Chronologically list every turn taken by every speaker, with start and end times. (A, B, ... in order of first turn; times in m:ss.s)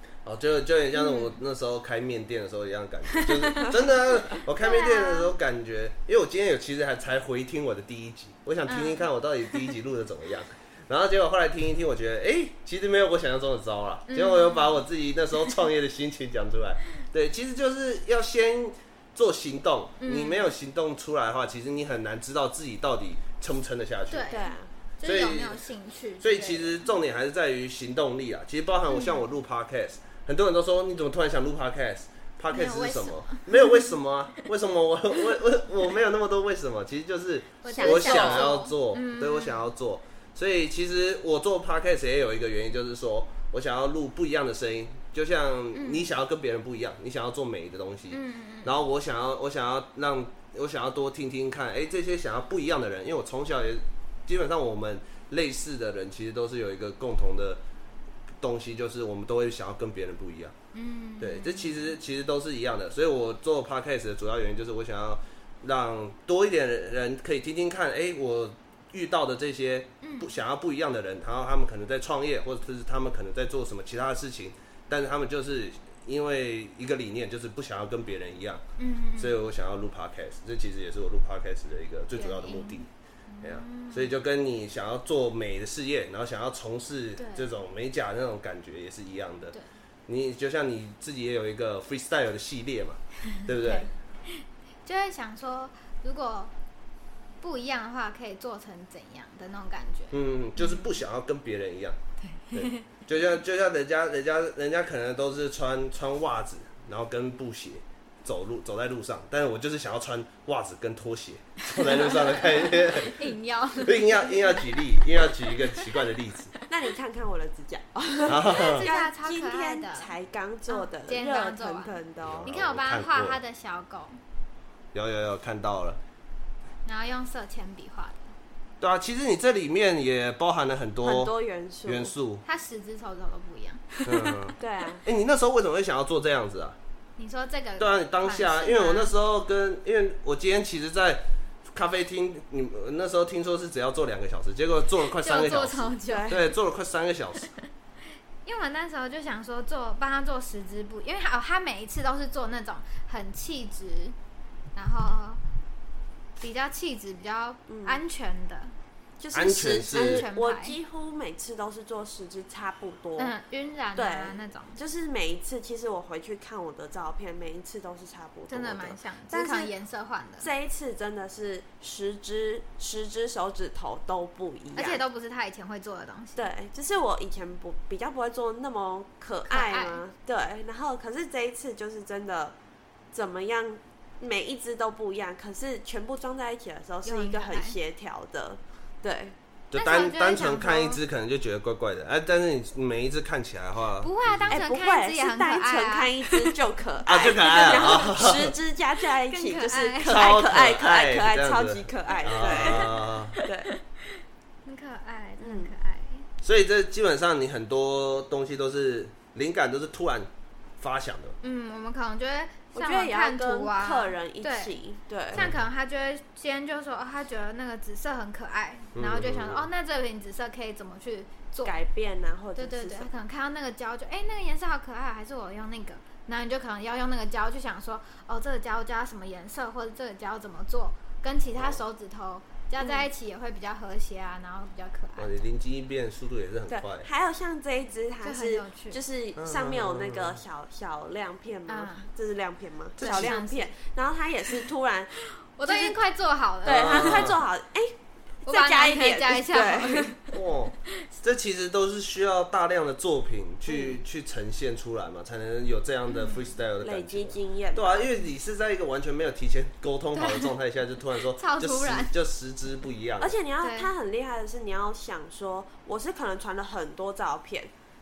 0:00.2-0:24.3 A
0:00.9-0:01.4 B
0:03.1-0:05.3 B
0:08.7-0:09.7 B
0:14.1-0:14.8 B
0:20.0-0:20.5 B
0:24.1-0:26.8 B
0:24.3-0:24.7 C
0:25.0-0:25.6 A
0:26.2-0:57.6 A
0:28.9-0:29.3 B
0:32.5-0:33.9 B
0:37.6-0:39.7 B
0:37.7-0:38.6 C
0:45.7-0:46.1 B
0:48.1-0:48.7 B
0:58.4-1:00.6 A
1:00.7-1:02.0 B
1:01.2-1:18.6 A
1:10.0-1:10.3 B
1:18.8-1:19.4 B
1:19.2-1:22.9 A
1:22.1-1:24.1 B
1:23.4-1:29.6 A
1:27.2-1:27.5 B
1:30.1-1:33.9 A
1:33.3-1:36.5 B
1:37.4-1:41.0 B
1:40.1-1:42.0 A
1:42.2-1:43.0 B
1:42.5-1:53.2 A
1:51.6-1:55.9 B
1:53.8-1:56.5 A
1:56.7-2:02.5 C
1:58.3-1:58.8 A
1:58.5-2:00.1 B
2:00.7-2:04.2 B
2:02.2-2:03.4 A
2:04.9-2:06.0 A
2:06.8-2:08.3 B
2:08.8-2:11.3 A
2:11.0-2:12.1 C
2:11.8-2:12.4 A
2:12.4-2:14.3 B
2:14.1-2:16.8 A
2:14.6-2:15.0 C
2:17.2-2:19.1 B
2:17.8-2:27.5 A
2:25.2-2:26.5 B
2:26.1-2:26.5 C
2:28.4-2:34.2 B
2:34.8-2:35.4 B
2:36.4-2:38.8 B
2:37.7-2:38.0 C
2:39.2-2:43.4 C
2:39.3-2:40.2 A
2:39.9-2:40.8 B
2:43.2-2:44.8 B
2:44.0-2:49.7 C
2:48.5-2:50.5 B
2:50.4-2:55.0 C
2:54.8-2:56.5 B
2:56.4-3:02.6 C
2:59.5-3:00.0 B
3:03.1-3:09.4 C
3:07.0-3:07.8 B
3:09.7-3:14.6 A
3:09.7-3:11.0 B
3:14.0-3:16.5 B
3:14.5-3:23.7 C
3:17.0-3:18.6 A
3:17.7-3:18.0 B
3:19.3-3:20.4 B
3:20.0-3:23.4 A
3:22.1-3:26.3 B
3:25.4-3:25.7 C
3:26.4-3:31.4 A
3:31.4-3:34.8 B
3:32.7-3:35.5 C
3:35.3-3:41.8 B
3:35.3-3:35.6 A
3:39.0-3:39.7 A
3:41.6-3:43.1 C
3:42.6-3:55.4 B
3:51.5-3:51.8 A
3:52.8-3:53.1 C
3:55.2-3:57.1 A
3:56.7-4:06.0 C
3:58.2-3:59.0 B
3:59.4-4:00.4 A
4:01.7-4:02.1 B
4:03.0-4:03.4 A
4:03.0-4:03.7 B
4:05.4-4:07.4 B
4:06.6-4:10.2 C
4:06.6-4:07.4 A
4:08.5-4:10.4 B
4:10.3-4:23.4 A
4:13.7-4:14.0 C
4:16.1-4:16.5 B
4:16.8-4:18.0 C
4:20.2-4:20.5 B
4:21.2-4:22.1 B
4:23.2-4:27.7 C
4:23.6-4:23.9 B